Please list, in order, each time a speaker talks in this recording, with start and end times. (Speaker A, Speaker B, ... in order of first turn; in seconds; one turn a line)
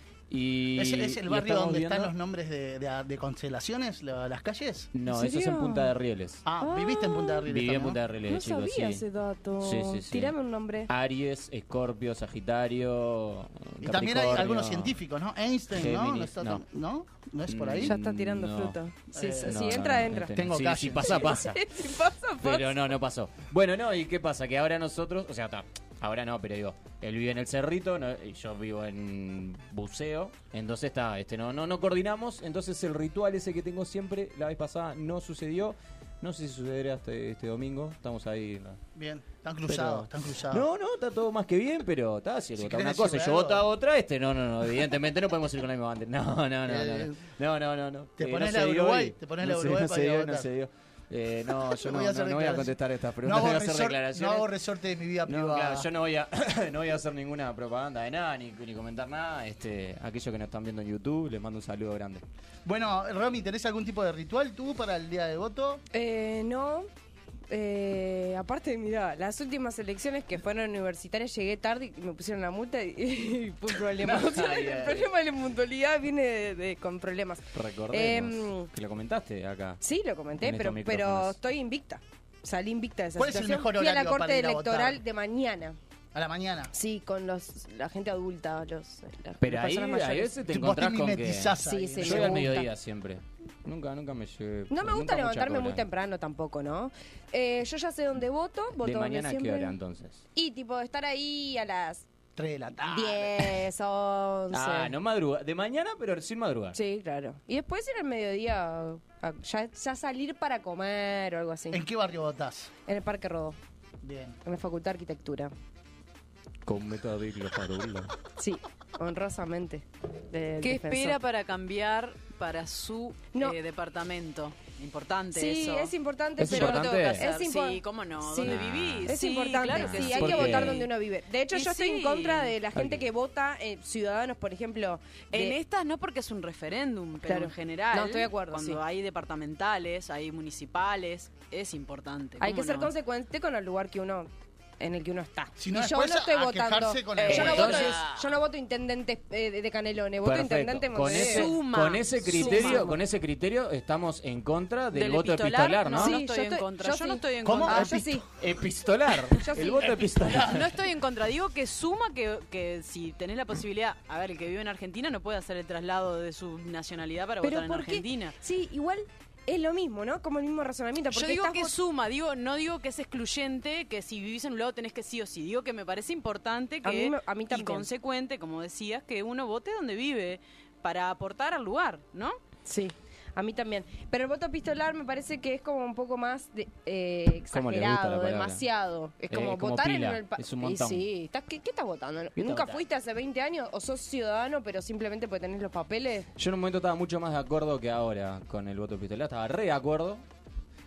Speaker A: 0.3-2.1
Speaker B: 0.8-4.9
Speaker A: 4.9-6.4
Speaker C: 5.1-5.9
Speaker B: 6.5-8.0
Speaker C: 6.6-7.5
Speaker A: 7.5-9.1
Speaker C: 8.3-10.9
Speaker A: 9.6-10.3
Speaker A: 10.9-15.0
Speaker B: 13.8-17.9
Speaker A: 15.7-16.6
Speaker A: 17.5-18.8
Speaker C: 17.8-20.3
Speaker B: 19.1-21.3
Speaker A: 19.4-21.6
Speaker C: 21.1-22.7
Speaker A: 22.4-38.8
Speaker B: 39.0-40.7
Speaker A: 39.7-54.5
Speaker B: 42.6-43.7
Speaker B: 46.7-47.2
Speaker B: 48.2-50.5
Speaker B: 51.6-55.9
Speaker A: 55.3-62.2
Speaker B: 62.6-65.8
Speaker C: 65.9-66.9
Speaker C: 67.5-78.7
Speaker A: 74.0-75.1
Speaker A: 77.5-79.8
Speaker C: 79.8-85.8
Speaker A: 80.4-81.4
Speaker B: 83.2-85.0
Speaker B: 86.1-86.7
Speaker C: 86.7-90.3
Speaker A: 89.4-95.8
Speaker B: 90.5-92.5
Speaker C: 91.7-92.7
Speaker C: 94.7-99.8
Speaker A: 98.8-100.2
Speaker C: 100.3-102.0
Speaker B: 102.4-103.6
Speaker C: 102.9-104.9
Speaker A: 104.5-106.8
Speaker C: 106.7-111.8
Speaker B: 111.7-112.7
Speaker C: 112.9-113.6
Speaker B: 114.0-114.4
Speaker C: 114.4-115.5
Speaker A: 116.7-118.1
Speaker C: 118.4-121.2
Speaker D: 120.6-130.9
Speaker C: 125.3-135.6
Speaker A: 126.4-127.2
Speaker A: 128.4-129.1
Speaker A: 129.7-130.9
Speaker D: 131.5-132.6
Speaker A: 132.8-133.0
Speaker D: 135.3-142.9
Speaker C: 137.3-138.8
Speaker C: 142.4-144.3
Speaker C: 144.8-151.5
Speaker B: 145.6-147.9
Speaker D: 147.2-148.1
Speaker A: 147.3-148.1
Speaker A: 150.2-156.2
Speaker B: 151.1-151.5
Speaker D: 151.2-152.9
Speaker C: 152.3-153.0
Speaker D: 154.9-158.0
Speaker C: 156.0-158.2
Speaker B: 157.4-158.2
Speaker A: 158.4-160.8
Speaker C: 159.5-160.0
Speaker D: 160.3-168.4
Speaker C: 167.4-171.8
Speaker D: 171.1-182.4
Speaker C: 176.8-177.9
Speaker C: 182.7-196.3
Speaker A: 187.5-188.7
Speaker A: 189.3-191.1
Speaker A: 192.4-192.8
Speaker A: 196.4-200.2